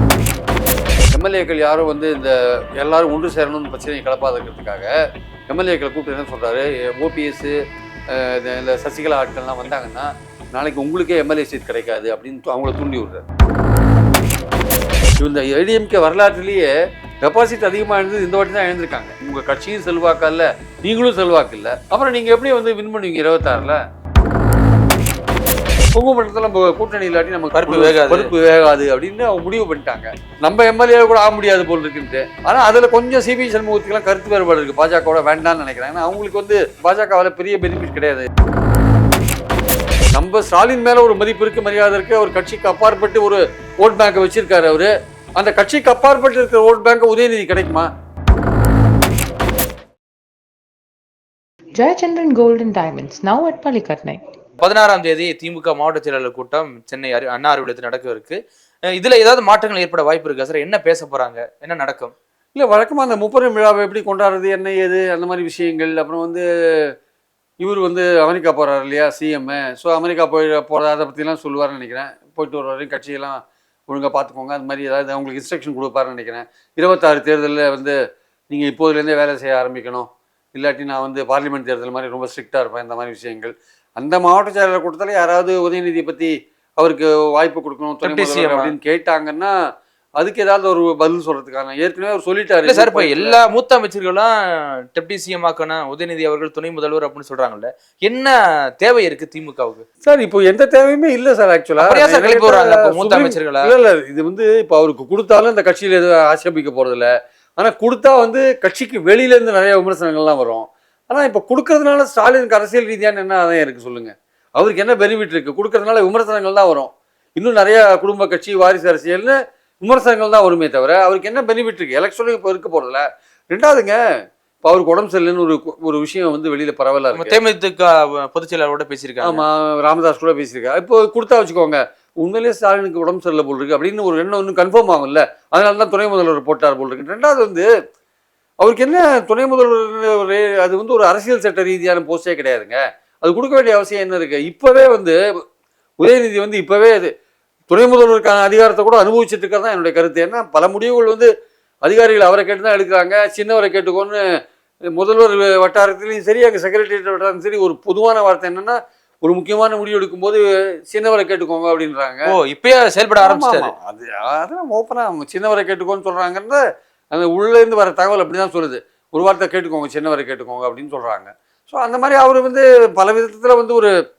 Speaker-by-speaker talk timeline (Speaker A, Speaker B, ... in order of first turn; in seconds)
Speaker A: 1.1-4.9, 5.5-7.5, 8.1-13.2, 15.2-16.7, 17.2-23.8, 25.9-38.3, 40.1-47.9, 62.5-66.9, 67.6-78.0, 78.5-89.5, 90.2-93.4, 100.0-124.0, 124.7-127.4, 129.2-137.7, 138.6-145.2, 146.0-147.1, 147.7-151.3, 151.8-154.2, 155.0-162.3, 163.2-166.6, 167.1-173.9
Speaker B: 27.5-28.3, 54.6-58.4, 59.0-62.1, 88.0-88.7, 92.7-99.8, 101.8-103.7, 127.1-129.4, 162.3-163.7
Speaker C: 51.8-54.2